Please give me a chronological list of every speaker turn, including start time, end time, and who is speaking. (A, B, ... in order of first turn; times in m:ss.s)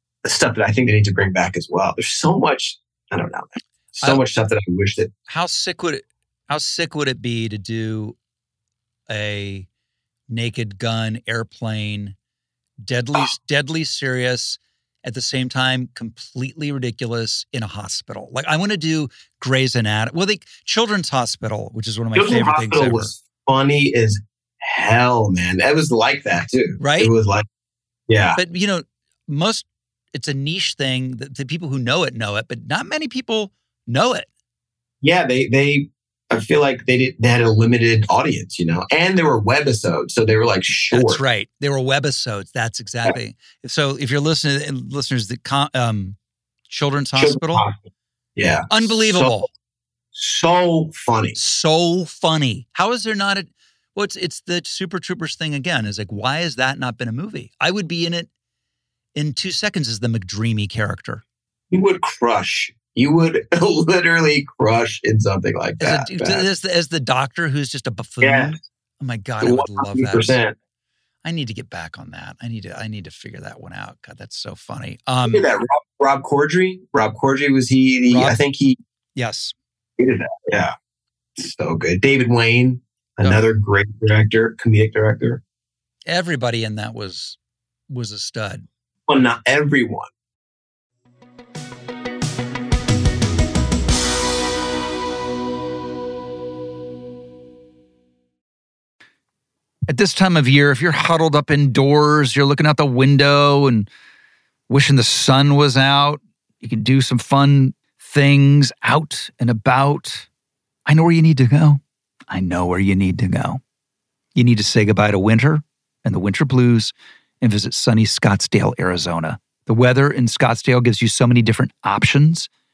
0:00.2-0:05.1 A
0:05.3-0:08.2 B
0:09.1-0:09.7 B
0:10.3-0:12.1 B
0:12.8-0:23.1 B
0:22.1-0:27.4 A
0:26.8-0:27.1 B
0:28.1-0:28.4 A
0:28.4-0:34.3 B
0:35.0-0:41.2 A
0:40.9-0:46.2 B
0:46.7-0:47.6 B
0:47.2-0:49.4 A
0:48.7-0:49.5 B
0:50.1-0:51.4 A
0:51.3-0:58.3 B
0:59.1-1:01.2 B
1:01.7-1:06.4 A
1:05.8-1:10.4 B
1:08.2-1:08.6 A
1:09.4-1:10.5 A
1:11.2-1:15.4 B
1:15.3-1:18.8 A
1:18.1-1:18.4 B
1:19.2-1:19.5 B
1:20.0-1:20.7 A
1:21.4-1:25.4 A
1:26.0-1:27.4 B
1:27.9-1:28.6 B
1:29.1-1:30.1 A
1:39.9-1:43.9 B
1:44.7-1:50.3 B
1:50.8-1:53.6 B
1:54.3-2:02.5 B